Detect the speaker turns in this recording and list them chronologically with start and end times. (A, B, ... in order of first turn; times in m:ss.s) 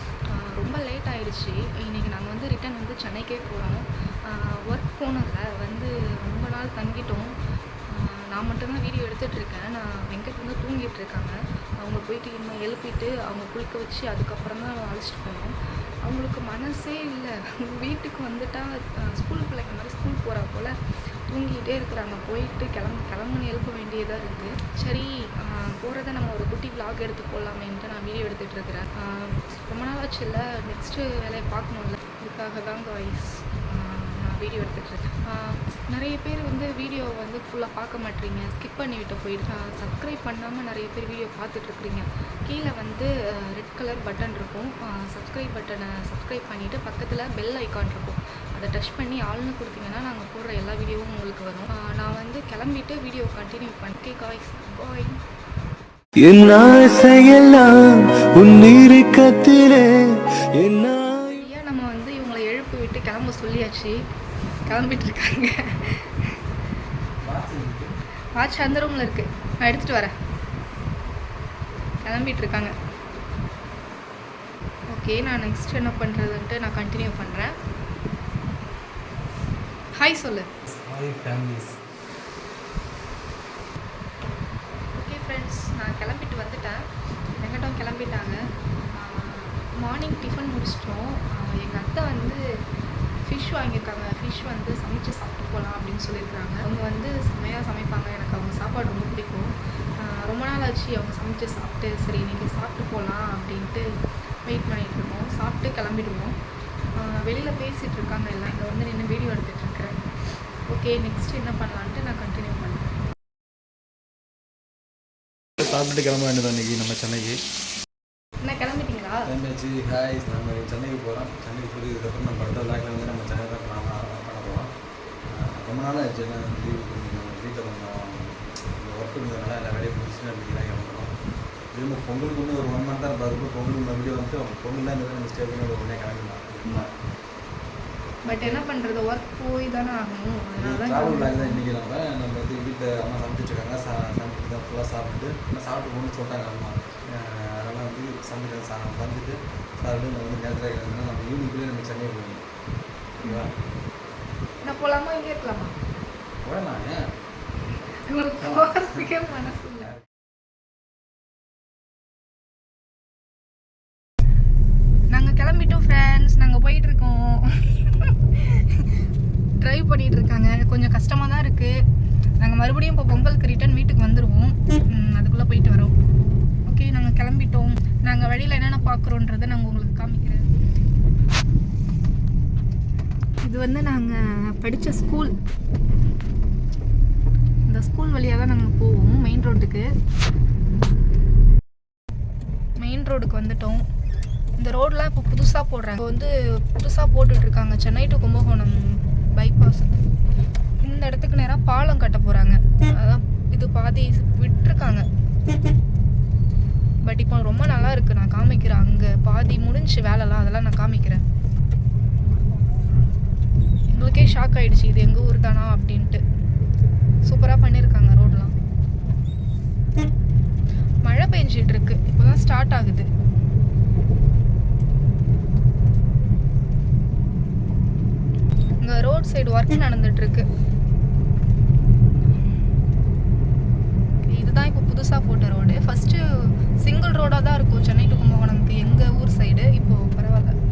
0:00.3-0:07.3 A
0:07.9-0:15.5 A
0:16.0-0:20.8 A
0:21.3-0:55.2 A
0:56.2-1:01.2 B
1:01.1-1:04.0 A
1:04.6-1:06.4 A
1:07.2-1:07.9 C
1:08.4-1:10.1 A
1:12.0-1:12.7 A
1:14.9-1:17.6 A
1:20.0-1:20.5 A
1:20.6-1:21.8 C
1:24.9-1:28.4 A
1:28.9-1:32.4 A
1:33.3-1:43.9 A
1:44.4-1:46.4 A
1:47.0-1:50.0 A
1:50.6-1:52.9 A
1:55.6-1:57.4 C
1:58.4-1:59.3 A
1:59.2-2:04.7 C
2:05.3-2:11.1 C
2:11.7-2:16.9 C
2:18.2-2:21.6 A
2:18.3-2:18.6 C
2:20.6-2:32.4 C
2:33.2-2:33.5 C
2:33.2-2:33.5 A
2:34.6-2:35.8 A
2:36.4-2:37.0 C
2:38.0-2:39.9 A
2:38.4-2:39.1 C
2:45.1-2:49.0 A
2:49.6-2:51.8 A
2:52.4-2:55.9 A
2:56.7-3:00.5 A
3:03.4-3:05.3 A
3:07.7-3:09.9 A
3:12.8-3:13.8 A
3:14.6-3:20.0 A
3:20.8-3:25.1 A
3:27.0-3:31.2 A
3:33.9-3:36.2 A
3:37.2-3:38.6 A
3:41.0-3:43.1 A
3:48.8-3:50.5 A
3:54.3-4:00.6 A